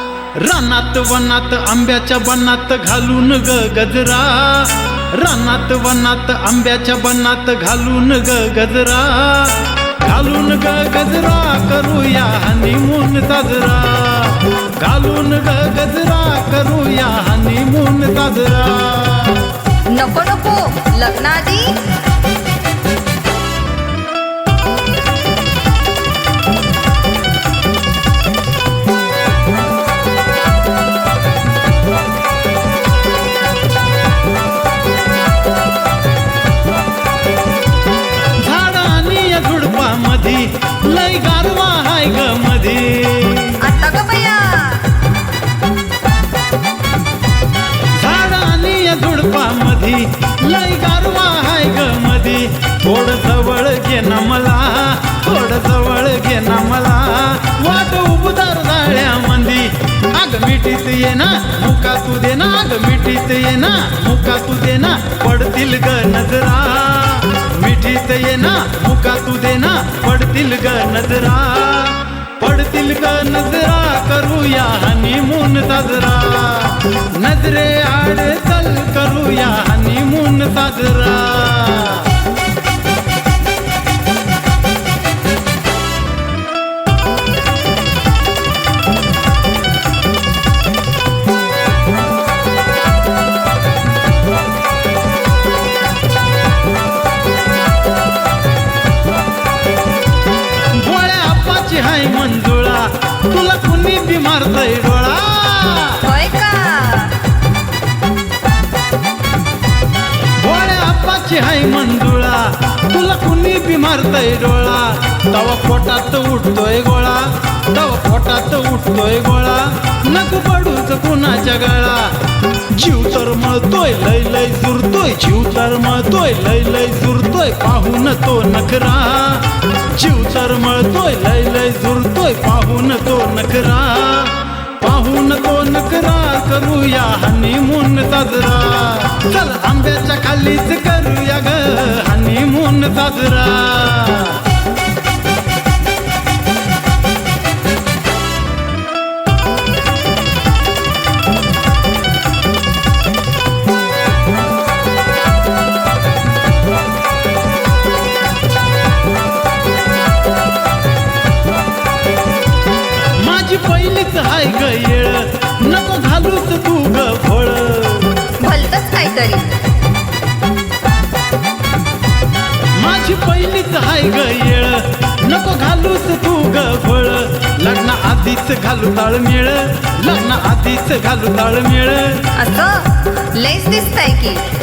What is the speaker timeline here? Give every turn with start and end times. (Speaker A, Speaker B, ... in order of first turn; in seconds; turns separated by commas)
Speaker A: 0.4-19.5, Speaker B: 19.9-21.9, Speaker A: 38.3-43.6, Speaker B: 43.6-44.9, Speaker A: 47.9-82.2, Speaker A: 100.7-106.0, Speaker B: 106.0-107.2, Speaker A: 110.4-122.2, Speaker A: 122.7-144.4, Speaker A: 163.2-168.2, Speaker B: 168.4-169.6, Speaker A: 172.7-182.3, Speaker B: 182.4-184.4